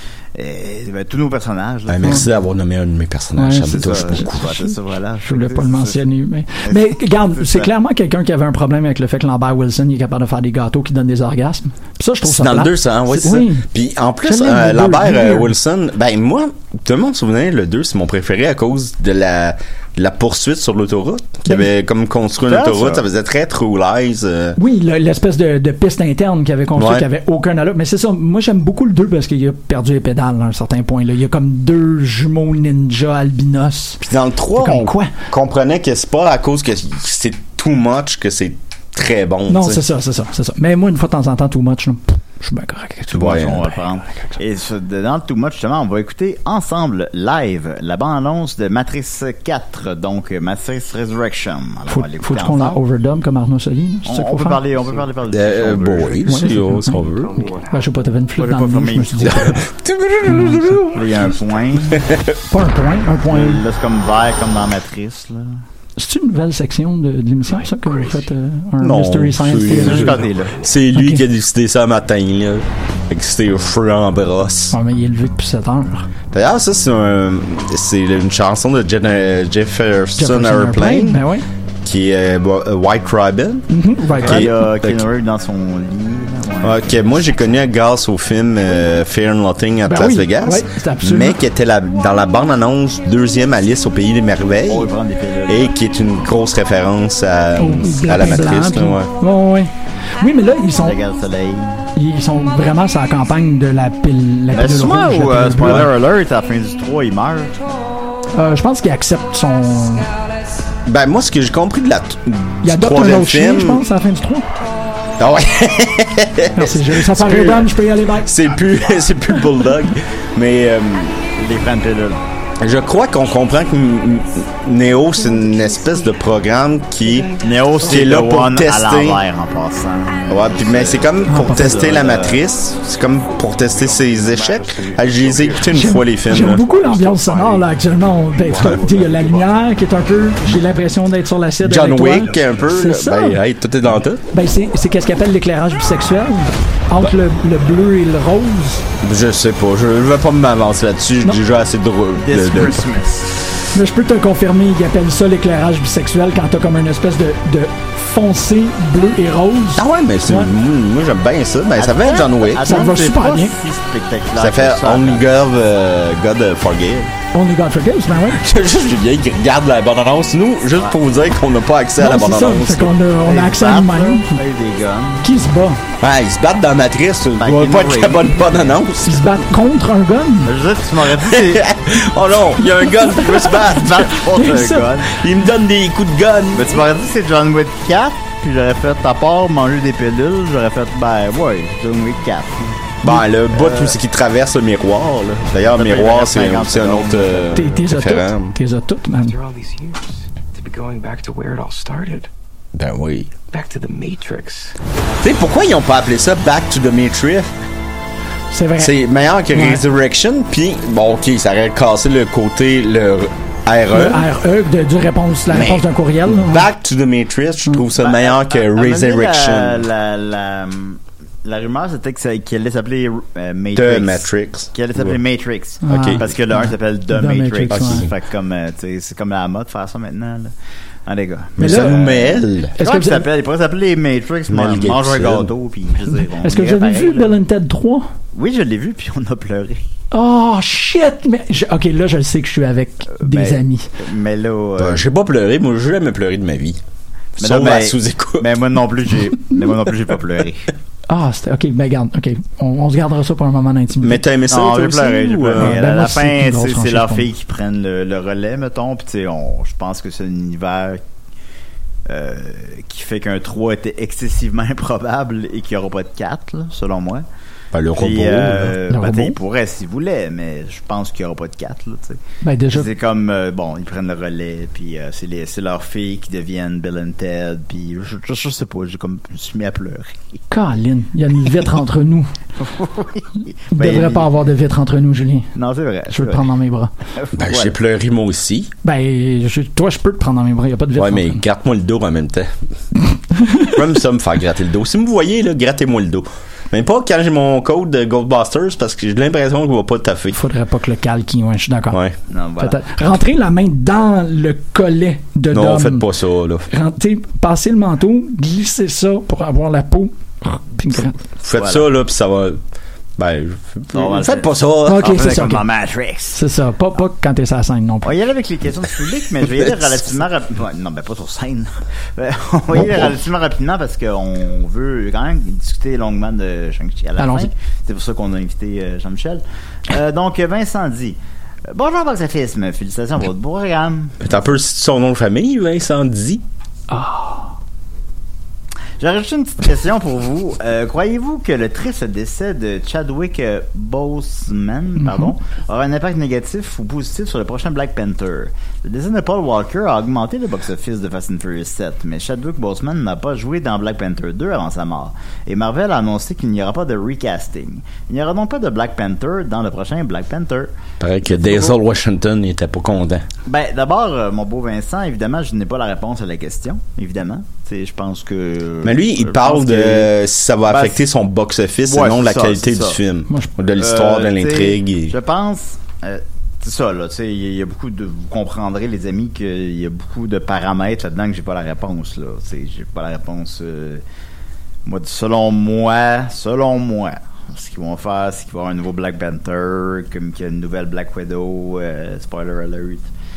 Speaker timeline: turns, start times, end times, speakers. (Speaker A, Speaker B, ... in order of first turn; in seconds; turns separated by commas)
Speaker A: 0.3-2.2, Speaker B: 1.9-4.6, Speaker C: 3.4-4.7, Speaker A: 3.6-6.0, Speaker C: 5.3-13.7, Speaker A: 6.6-7.7, Speaker B: 12.2-24.6, Speaker C: 14.2-15.5, Speaker A: 22.5-23.1, Speaker C: 24.6-34.0, Speaker B: 26.8-27.1, Speaker B: 34.0-39.8, Speaker C: 34.6-35.1, Speaker C: 39.5-44.4, Speaker A: 43.1-52.8, Speaker B: 43.1-43.6, Speaker C: 51.9-54.6, Speaker A: 54.1-56.3, Speaker B: 55.3-57.4, Speaker C: 56.3-57.1, Speaker D: 57.0-57.9, Speaker C: 57.6-59.6, Speaker A: 58.4-59.6, Speaker B: 59.2-60.9, Speaker C: 60.2-61.0, Speaker A: 60.9-62.0, Speaker C: 62.5-63.6, Speaker A: 63.3-65.6, Speaker C: 66.0-70.2, Speaker B: 68.8-74.8, Speaker A: 69.6-70.6, Speaker C: 70.9-71.2, Speaker C: 74.7-76.1, Speaker B: 76.3-81.2, Speaker C: 80.2-81.5, Speaker B: 81.8-85.0, Speaker C: 83.7-84.5, Speaker A: 84.2-86.8, Speaker B: 86.6-94.9, Speaker C: 89.9-91.4, Speaker A: 94.7-95.7, Speaker B: 95.5-99.1, Speaker C: 97.6-101.0, Speaker A: 100.8-101.8, Speaker C: 102.0-105.9, Speaker A: 104.5-107.6, Speaker C: 108.3-110.1, Speaker B: 110.9-113.8, Speaker C: 112.6-114.5, Speaker B: 115.2-117.7, Speaker C: 116.5-118.3, Speaker B: 118.2-121.2, Speaker A: 121.3-122.2, Speaker B: 122.6-129.2, Speaker D: 125.2-126.1, Speaker D: 127.1-127.5, Speaker A: 127.4-132.4, Speaker B: 130.3-136.6, Speaker C: 131.3-131.8, Speaker D: 134.0-135.5, Speaker C: 135.6-143.4, Speaker D: 136.5-137.7, Speaker D: 138.7-139.3, Speaker B: 141.6-144.2, Speaker C: 144.3-148.8, Speaker B: 149.0-152.8, Speaker A: 152.2-153.4, Speaker C: 153.7-160.5, Speaker B: 159.8-162.9, Speaker A: 161.8-165.2, Speaker C: 162.7-163.5, Speaker B: 164.4-167.1, Speaker C: 167.3-168.4, Speaker B: 168.3-172.9, Speaker C: 172.0-174.3, Speaker A: 173.2-175.3, Speaker C: 175.2-175.8, Speaker B: 176.0-179.3, Speaker A: 177.4-178.4, Speaker C: 179.0-180.5, Speaker A: 180.4-181.7, Speaker B: 181.3-184.0, Speaker C: 182.7-184.9, Speaker A: 183.6-185.2, Speaker B: 185.1-186.8, Speaker A: 186.5-192.7, Speaker B: 193.0-198.6, Speaker A: 193.5-194.0, Speaker A: 195.6-197.7, Speaker C: 197.6-199.4, Speaker D: 199.2-202.3, Speaker B: 202.8-203.3, Speaker D: 203.5-204.8, Speaker B: 205.2-207.5, Speaker C: 208.5-208.9, Speaker B: 208.8-214.3, Speaker C: 209.5-209.8, Speaker C: 213.9-216.7, Speaker B: 215.5-219.8, Speaker A: 218.0-230.5, Speaker B: 223.8-225.2, Speaker C: 225.8-228.1, Speaker B: 225.9-226.3, Speaker B: 227.7-228.1, Speaker A: 231.1-237.4, Speaker B: 231.6-232.8, Speaker C: 231.6-231.9, Speaker C: 232.8-233.3, Speaker B: 234.5-235.5, Speaker C: 236.4-238.1, Speaker A: 238.3-239.8, Speaker C: 240.1-243.9, Speaker A: 243.2-245.0, Speaker B: 244.8-246.8, Speaker B: 247.4-248.5, Speaker A: 247.4-250.7, Speaker C: 251.1-254.2, Speaker B: 254.0-255.8, Speaker A: 254.5-261.0, Speaker C: 255.6-257.3, Speaker A: 262.1-267.2, Speaker B: 267.7-268.8, Speaker A: 267.9-272.2, Speaker C: 268.9-269.4, Speaker C: 272.4-272.9, Speaker A: 272.7-280.2, Speaker C: 280.5-282.3, Speaker A: 282.6-284.3, Speaker C: 283.7-285.5, Speaker A: 285.6-286.5, Speaker C: 286.1-286.9, Speaker A: 287.2-287.7, Speaker B: 287.4-288.7, Speaker C: 288.8-291.4, Speaker B: 291.0-292.5, Speaker C: 293.4-293.7, Speaker B: 293.6-300.4, Speaker C: 300.3-302.0, Speaker B: 301.9-302.2, Speaker A: 302.3-302.8, Speaker C: 302.6-306.1, Speaker B: 305.5-306.7, Speaker C: 306.7-311.2, Speaker B: 311.4-312.6, Speaker A: 311.6-311.9, Speaker B: 313.2-315.3, Speaker A: 313.9-316.4, Speaker C: 314.9-315.6, Speaker C: 316.3-318.1, Speaker A: 318.0-331.2, Speaker B: 322.8-323.1, Speaker C: 327.2-327.5, Speaker A: 331.7-334.4, Speaker B: 334.2-336.4, Speaker C: 336.9-337.5, Speaker A: 339.0-360.7, Speaker C: 345.0-345.3, Speaker B: 361.0-363.2, Speaker A: 361.3-361.8, Speaker A: 363.5-370.1, Speaker B: 368.8-375.1, Speaker A: 370.7-371.0, Speaker A: 371.9-373.0, Speaker A: 373.8-384.0, Speaker A: 384.9-393.1